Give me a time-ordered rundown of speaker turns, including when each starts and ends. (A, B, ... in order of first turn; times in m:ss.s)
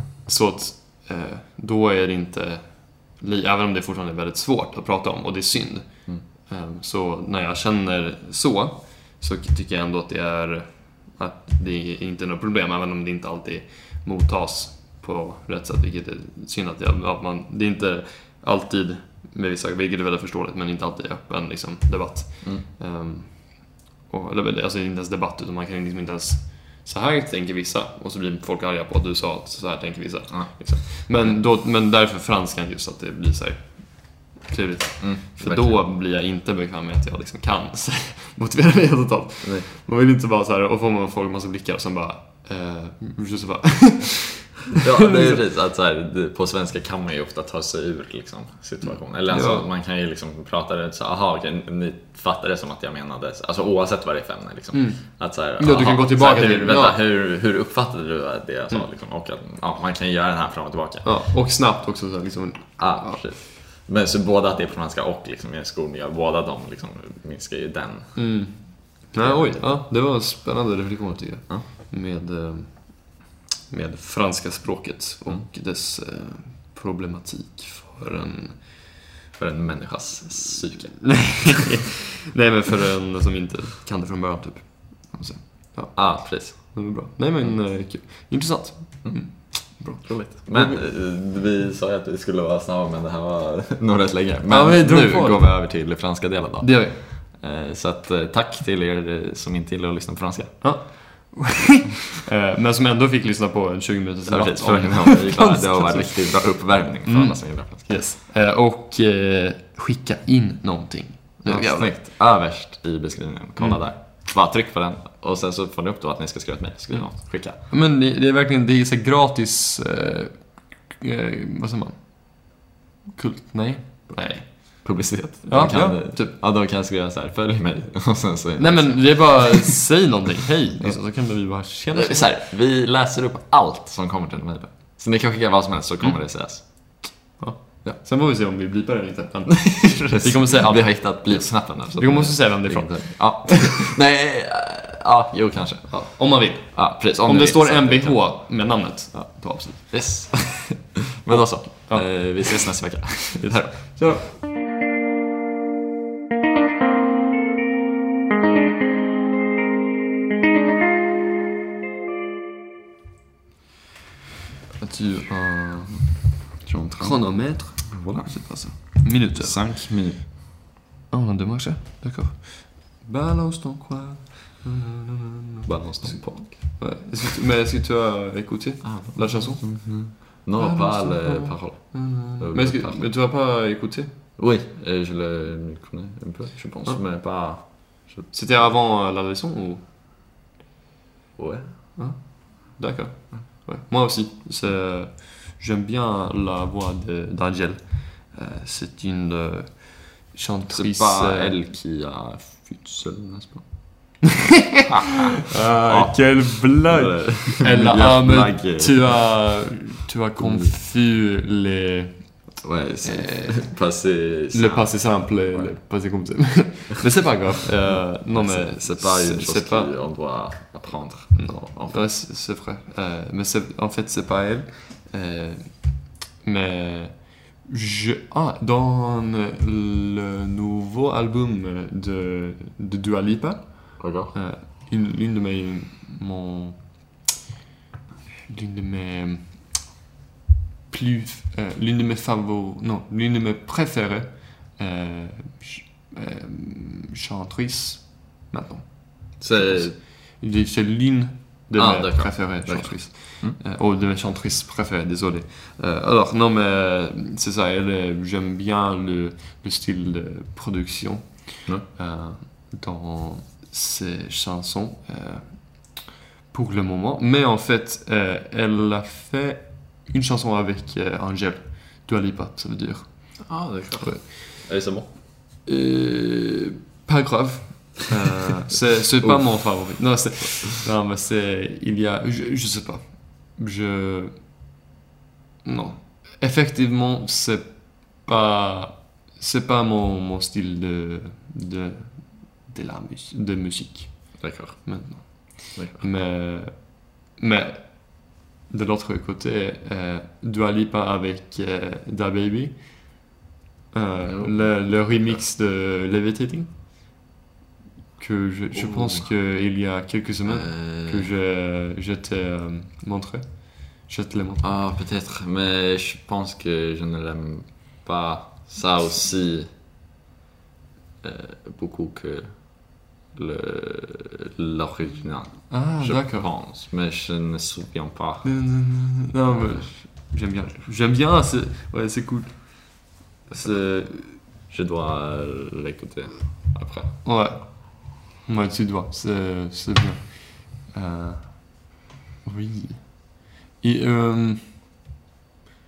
0:00.2-0:05.9 A
0:06.5-0:45.4 A
0:30.3-0:30.8 B
0:35.0-0:35.8 B
0:44.8-1:01.0 B
0:49.3-0:49.6 A
0:54.7-0:55.0 A
0:55.6-0:57.0 A
1:01.0-1:03.2 A
1:02.8-1:08.2 B
1:08.2-1:18.6 A
1:09.2-1:09.6 B
1:19.4-1:21.6 B
1:21.0-1:30.8 A
1:25.9-1:26.8 B
1:29.0-1:29.3 B
1:30.0-1:40.6 B
1:34.5-1:35.5 A
1:36.6-1:37.0 A
1:40.6-1:46.4 A
1:44.3-1:48.0 B
1:47.0-1:51.9 A
1:51.4-1:57.5 B
1:57.6-2:02.0 A
2:03.1-2:04.8 A
2:04.8-2:09.8 B
2:05.4-2:06.3 A
2:08.6-2:12.3 A
2:11.9-2:16.6 B
2:17.4-2:23.8 A
2:19.5-2:28.3 B
2:25.9-2:29.8 A
2:29.1-2:34.0 B
2:31.3-2:32.6 A
2:33.4-2:34.3 A
2:44.8-2:46.2 A
2:46.6-2:47.2 B
2:47.0-2:49.5 A
2:47.9-2:50.2 B
2:51.1-3:04.1 A
2:55.6-2:56.8 B
2:58.8-3:03.0 B
3:04.4-3:08.3 B
3:08.3-3:09.8 A
3:11.4-3:11.6 B
3:12.0-3:21.6 A
3:20.7-3:23.6 B
3:24.2-3:32.3 A
3:24.9-3:25.2 B
3:25.8-3:29.3 B
3:30.4-3:30.7 B
3:32.6-3:35.8 B
3:33.0-3:33.7 A
3:34.5-3:39.9 A
3:37.8-3:42.0 B
3:41.3-3:45.7 A
3:46.4-3:56.8 A
3:54.0-3:54.3 B
3:58.5-3:59.5 A
4:00.9-4:25.8 A
4:09.4-4:10.0 B
4:11.8-4:13.6 B
4:26.5-4:33.3 A
4:33.4-4:35.1 B
4:34.0-4:34.3 A
4:35.6-4:44.3 A
4:39.2-4:39.5 B
4:45.6-5:02.8 A
4:54.4-4:54.9 B
4:55.8-4:56.0 B
5:03.9-5:06.7 A
5:04.2-5:05.4 B
5:08.2-5:14.8 A
5:08.7-5:09.3 B
5:10.5-5:11.3 B
5:14.6-5:19.7 B
5:21.2-5:28.4 B
5:25.7-5:26.5 A
5:28.4-5:34.4 A
5:34.7-5:37.1 B
5:37.2-5:41.7 A
5:42.4-5:43.1 A
5:43.8-5:44.6 A